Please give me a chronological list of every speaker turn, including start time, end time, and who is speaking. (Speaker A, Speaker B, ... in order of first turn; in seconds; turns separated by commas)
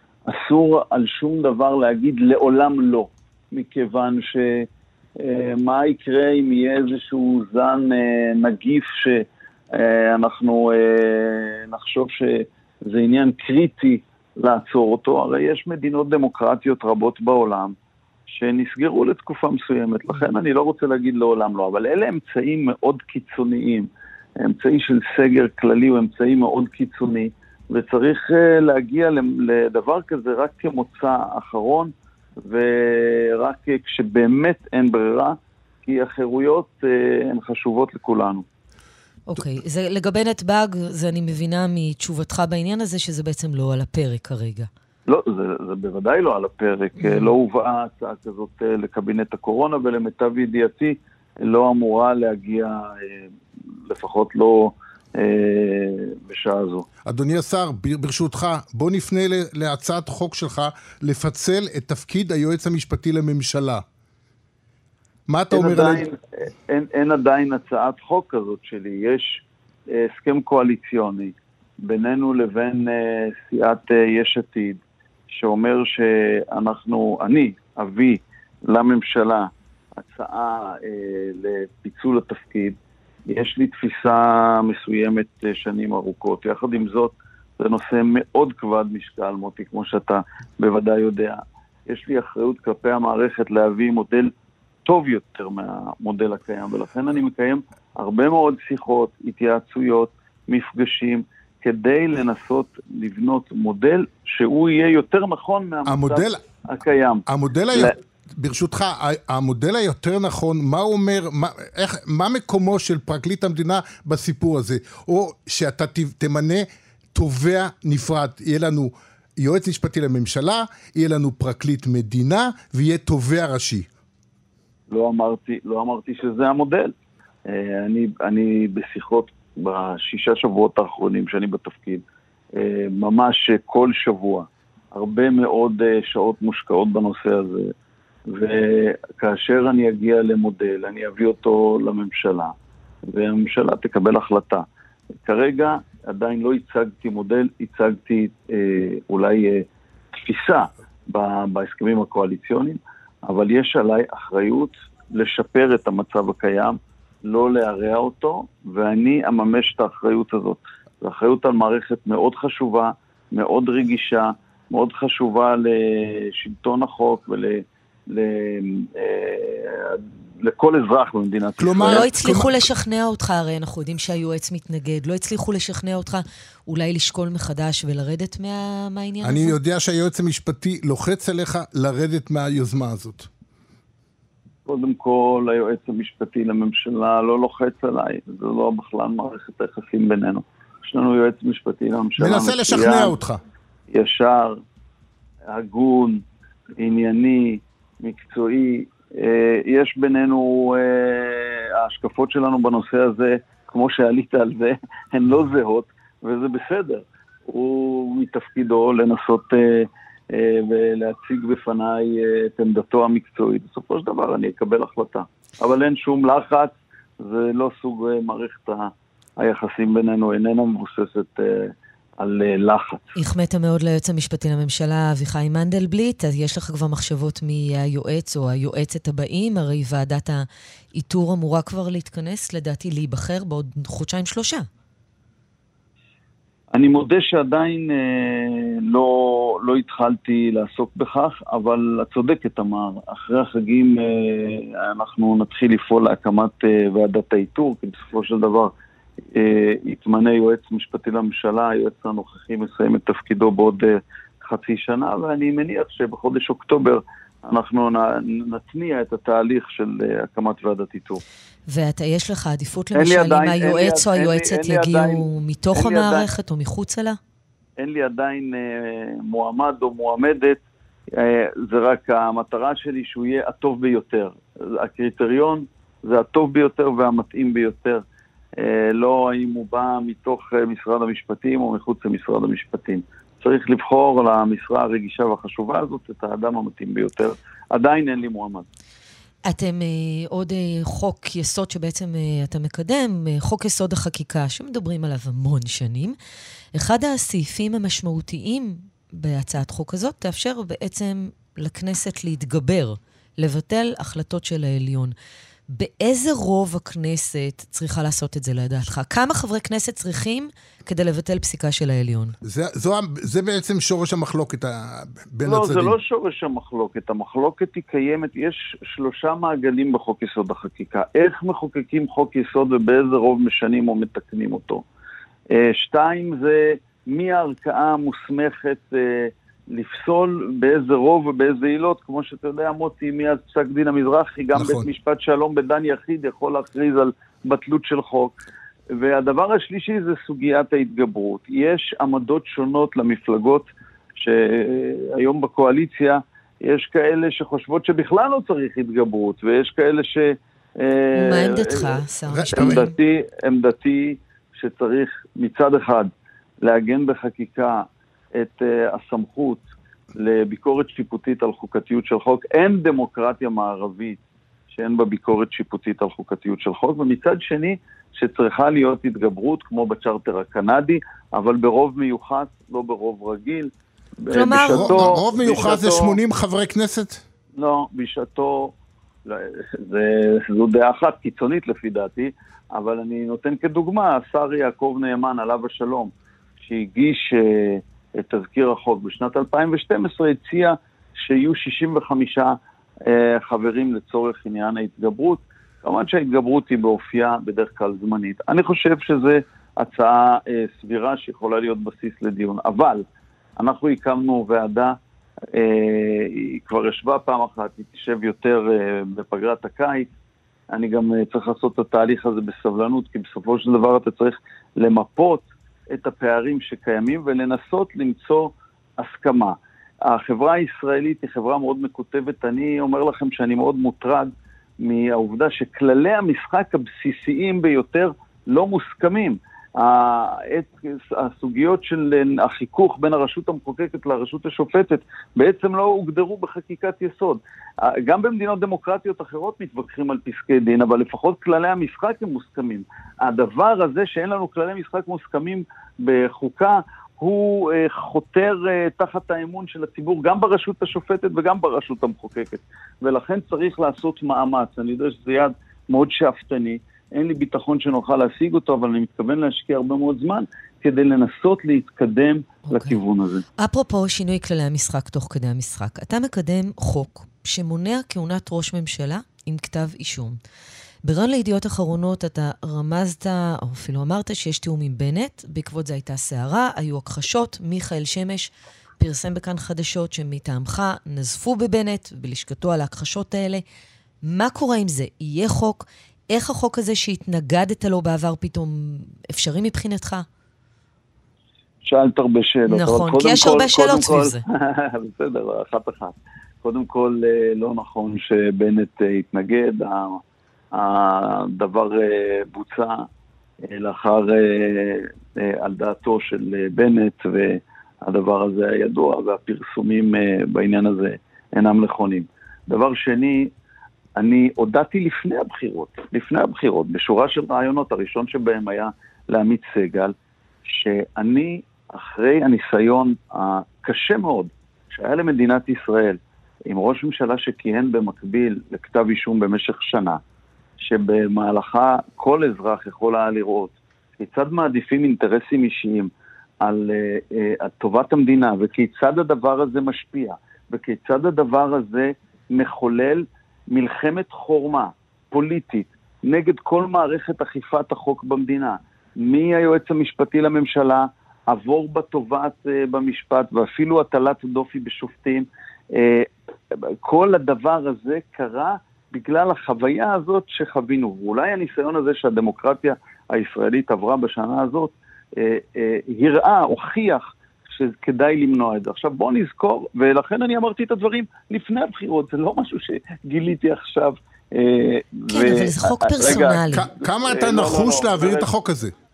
Speaker A: 0.3-17.8, Speaker A: 18.3-31.9, Speaker A: 32.4-38.5, Speaker B: 39.3-44.7, Speaker A: 45.1-53.3, Speaker B: 47.0-47.3, Speaker A: 53.9-56.9, Speaker C: 57.1-63.8, Speaker C: 65.3-66.1, Speaker A: 65.5-94.3, Speaker A: 94.8-108.0, Speaker C: 105.9-106.4, Speaker C: 107.3-123.9, Speaker A: 124.9-126.9, Speaker A: 127.5-137.7, Speaker A: 138.3-142.5, Speaker A: 143.1-144.7, Speaker A: 145.2-172.1, Speaker C: 171.6-172.6, Speaker B: 171.8-179.6, Speaker C: 179.2-183.3, Speaker A: 184.7-193.2, Speaker C: 192.2-193.4, Speaker A: 193.9-194.6, Speaker A: 195.5-196.2, Speaker A: 196.8-223.2, Speaker B: 223.2-234.7, Speaker A: 236.7-248.7, Speaker A: 249.3-261.2, Speaker B: 261.7-267.2, Speaker A: 262.9-266.3, Speaker A: 267.8-270.6, Speaker A: 271.2-278.0, Speaker A: 278.6-288.7, Speaker B: 289.4-296.2, Speaker B: 296.7-305.1, Speaker B: 305.7-312.4, Speaker C: 312.4-315.9, Speaker A: 315.4-324.8, Speaker A: 325.5-338.4, Speaker C: 334.6-334.9, Speaker A: 338.9-356.1, Speaker B: 351.1-352.9, Speaker C: 352.3-352.9, Speaker A: 356.6-359.6, Speaker A: 360.1-376.2, Speaker B: 374.3-375.1, Speaker C: 374.7-377.2, Speaker A: 377.6-378.7, Speaker A: 379.3-403.1, Speaker A: 403.6-405.0, Speaker A: 405.5-410.1, Speaker A: 410.7-463.4, Speaker B: 462.7-463.0, Speaker B: 463.6-470.4, Speaker B: 471.0-483.6, Speaker B: 484.2-490.3, Speaker A: 491.8-500.2, Speaker B: 492.7-494.4, Speaker A: 500.7-503.1, Speaker A: 503.7-513.5, Speaker A: 514.2-530.2, Speaker A: 530.8-536.1, Speaker A: 536.6-578.5, Speaker B: 575.3-576.9, Speaker C: 576.7-578.9